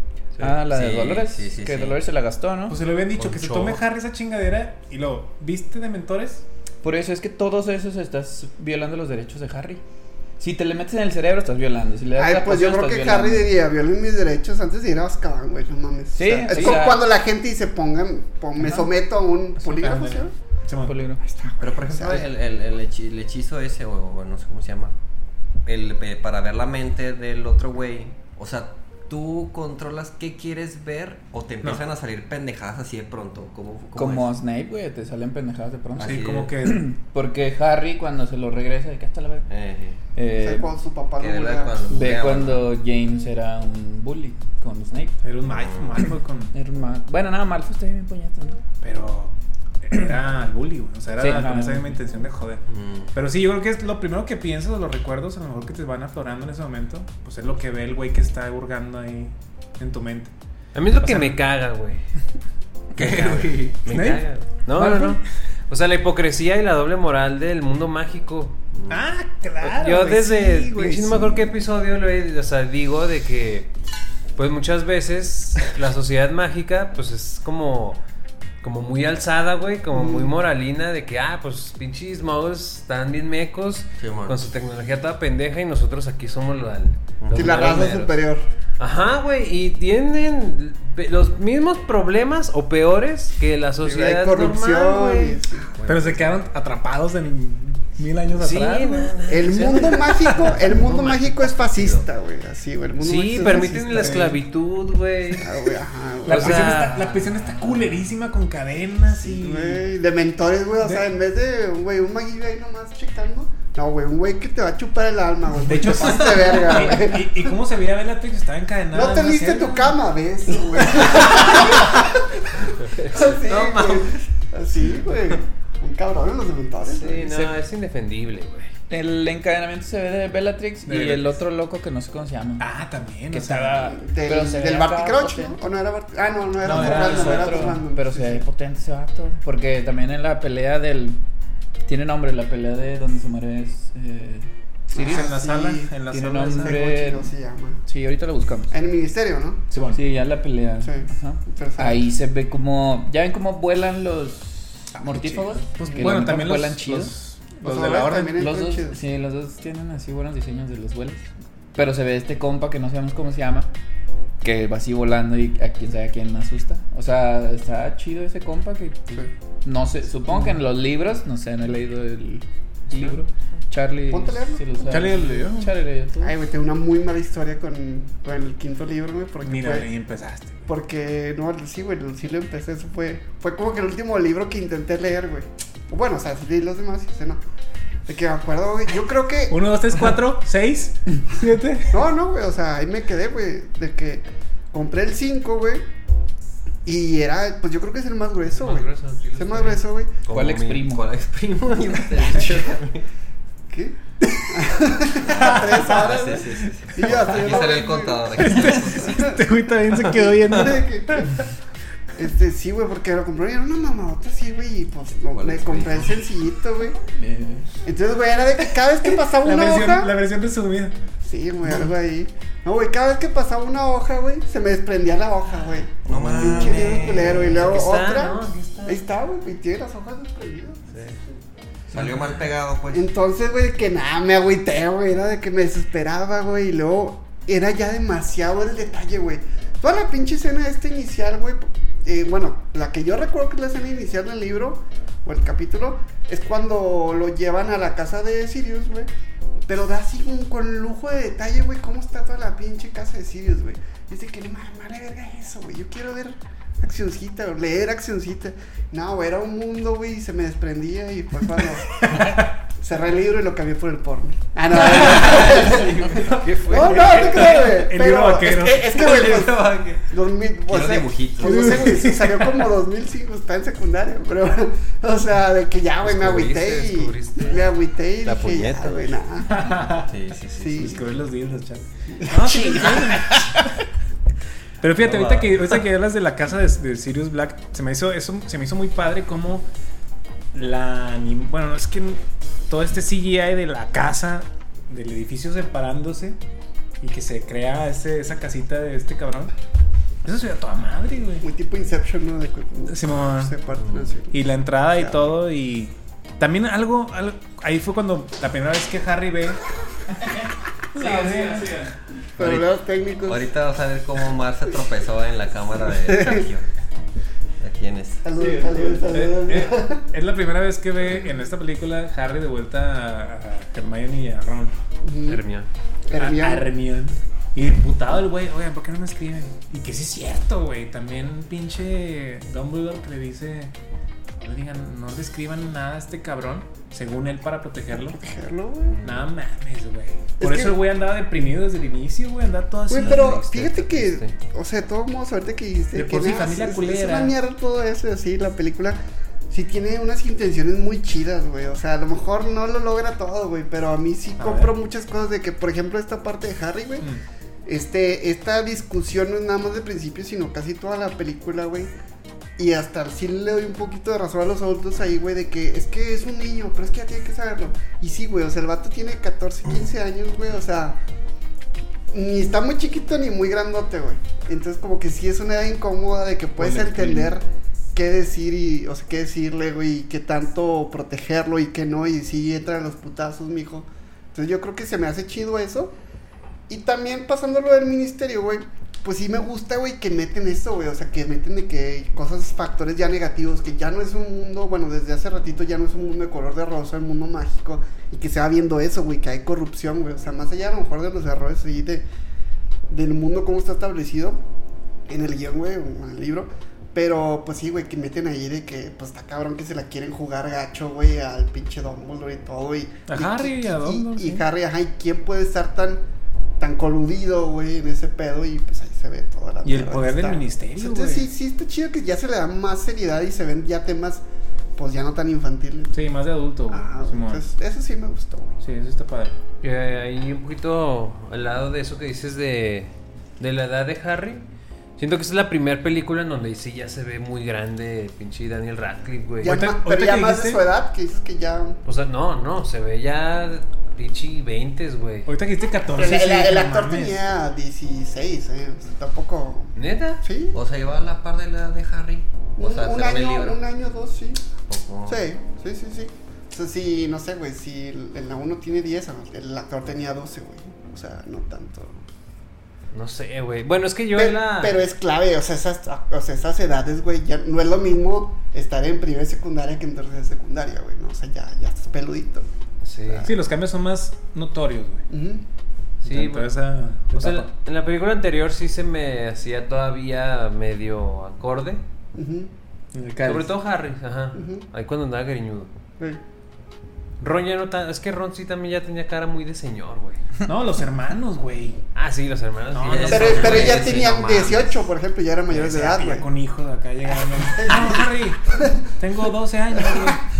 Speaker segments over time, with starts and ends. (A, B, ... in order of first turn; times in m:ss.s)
0:00.4-0:02.8 A
0:00.6-0:02.0 B
0:02.7-0:06.4 C
0:03.2-0:03.8 D
0:06.8-0:09.8 A
0:10.4-0:13.5 A
0:12.2-0:20.3 E
0:16.1-0:17.1 A
0:18.6-0:18.8 A
0:19.6-0:20.9 C
0:20.8-0:21.5 A
0:21.4-0:22.2 E
0:21.6-0:24.9 B
0:25.6-0:34.3 B
0:34.0-0:39.5 A
0:36.0-0:36.5 B
0:36.0-0:36.8 C
0:39.5-0:40.0 B
0:40.1-0:40.7 A
0:40.4-0:41.8 E
0:41.2-0:42.7 B
0:41.9-0:45.2 A
0:45.2-0:46.5 C
0:45.5-0:46.1 B
0:46.5-0:48.6 A
0:48.8-0:52.6 C
0:51.2-0:52.0 A
0:52.7-0:53.1 B
0:53.1-1:00.3 C
1:00.7-1:02.0 D
1:01.0-1:01.4 C
1:02.9-1:03.8 B
1:03.0-1:08.6 D
1:03.8-1:05.2 C
1:08.9-1:11.5 C
1:09.6-1:13.7 D
1:14.4-1:18.0 D
1:18.6-1:28.2 D
1:19.9-1:20.3 E
1:24.0-1:24.4 B
1:27.2-1:27.8 B
1:27.3-1:28.4 E
1:28.8-1:35.4 D
1:33.8-1:35.7 E
1:35.6-1:36.4 B
1:35.8-1:40.3 C
1:38.4-1:40.9 D
1:39.3-1:44.3 E
1:40.8-1:41.9 B
1:43.0-1:45.7 D
1:43.5-1:44.4 C
1:45.4-1:46.9 E
1:46.2-1:49.9 C
1:46.2-1:47.2 D
1:49.1-1:57.5 E
1:50.8-1:51.1 C
1:55.6-2:00.0 C
1:58.9-2:07.3 E
2:02.9-2:04.1 D
2:06.8-2:08.7 D
2:07.2-2:07.5 A
2:08.9-2:12.6 A
2:10.8-2:11.4 C
2:12.6-2:13.9 C
2:13.3-2:15.6 A
2:13.8-2:18.4 E
2:16.6-2:17.8 C
2:16.6-2:21.2 A
2:21.8-2:24.5 A
2:24.9-2:25.9 E
2:24.9-2:26.8 C
2:26.1-2:27.3 A
2:26.4-2:27.8 E
2:27.8-2:28.7 A
2:28.7-2:29.6 E
2:29.7-2:30.0 C
2:29.9-2:37.1 A
2:30.8-2:32.0 E
2:35.0-2:38.4 C
2:35.9-2:36.1 E
2:37.6-2:39.0 E
2:38.3-2:43.7 A
2:44.4-2:56.3 A
2:54.1-2:55.1 E
2:54.9-2:55.8 C
2:56.2-2:59.9 E
2:59.4-3:00.6 C
3:00.7-3:07.4 E
3:08.1-3:09.6 E
3:09.5-3:12.0 C
3:11.9-3:15.8 E
3:16.8-3:20.1 E
3:18.5-3:20.9 D
3:20.3-3:21.1 A
3:20.7-3:23.0 B
3:23.7-3:29.4 E
3:25.2-3:29.3 B
3:25.3-3:25.8 C
3:28.4-3:31.4 C
3:29.9-3:31.5 E
3:32.2-3:37.0 E
3:35.3-3:36.2 B
3:37.1-3:37.7 A
3:37.8-3:40.1 E
3:39.3-3:40.9 C
3:41.2-3:51.1 E
3:41.6-3:41.9 C
3:46.0-3:47.7 B
3:46.2-3:46.8 C
3:46.6-3:47.0 A
3:47.3-3:49.0 D
3:51.9-3:53.0 B
3:52.9-4:09.1 E
4:09.7-4:39.7 E
4:21.9-4:22.5 C
4:24.8-4:29.0 C
4:25.2-4:27.7 D
4:28.9-4:30.0 B
4:30.7-4:32.0 B
4:31.4-4:32.7 C
4:36.0-4:37.7 D
4:38.2-4:39.0 D
4:39.4-4:40.1 C
4:40.0-4:40.9 B
4:40.6-4:41.0 E
4:40.8-4:43.8 C
4:42.1-4:43.5 E
4:44.8-4:49.6 C
4:45.0-4:45.6 B
4:50.5-4:56.4 C
4:57.0-4:59.5 C
5:00.2-5:01.4 C
5:01.4-5:04.4 E
5:02.9-5:03.6 C
5:04.3-5:09.6 C
5:05.0-5:05.3 E
5:10.9-5:11.8 C
5:11.0-5:11.9 A
5:12.4-5:13.6 E
5:12.4-5:12.6 B
5:13.3-5:16.6 B
5:16.0-5:16.4 E
5:17.6-5:18.2 B
5:18.2-5:20.0 E
5:18.4-5:19.0 A
5:19.1-5:24.7 C
5:25.0-5:25.4 E
5:25.3-5:25.7 D
5:26.1-5:26.7 E
5:26.1-5:33.7 C
5:34.4-5:38.2 C
5:38.1-5:39.0 E
5:39.0-5:43.5 C
5:40.4-5:40.8 E
5:42.9-5:49.0 E
5:43.0-5:44.3 D
5:45.9-5:47.3 C
5:49.5-5:57.1 E
5:54.4-5:54.7 C
5:57.6-6:01.9 E
6:02.6-6:11.0 E
6:12.1-6:25.9 E
6:16.6-6:17.3 C
6:26.7-6:42.0 E
6:42.9-6:44.4 E
6:45.1-6:56.0 E
6:53.1-6:54.4 C
6:56.6-7:04.2 E
6:59.6-7:01.3 C
7:04.8-7:06.0 E
7:05.9-7:07.4 C
7:06.7-7:08.6 E
7:08.6-7:09.4 C
7:09.6-7:14.4 D
7:15.0-7:19.5 D
7:19.4-7:20.6 C
7:19.4-7:21.8 E
7:21.8-7:25.3 D
7:25.3-7:27.3 C
7:25.9-7:30.6 E
7:29.7-7:30.2 D
7:30.5-7:33.6 B
7:32.6-7:34.4 E
7:34.7-7:35.2 B
7:35.0-7:42.0 E
7:42.9-7:44.9 D
7:44.2-7:52.5 E
7:52.8-7:53.3 D
7:53.0-7:53.3 E
7:53.2-7:55.0 C
7:55.1-7:55.4 E
7:56.0-7:56.6 D
7:56.0-7:57.5 C
7:57.1-8:01.8 D
8:02.2-8:02.5 E
8:02.9-8:03.5 C
8:03.2-8:05.7 D
8:04.3-8:04.6 E
8:07.2-8:10.2 D
8:10.4-8:11.8 C
8:11.9-8:13.8 D
8:12.7-8:13.8 C
8:12.8-8:14.8 B
8:13.1-8:16.3 E
8:15.5-8:20.2 C
8:17.5-8:18.8 E
8:19.8-8:20.2 E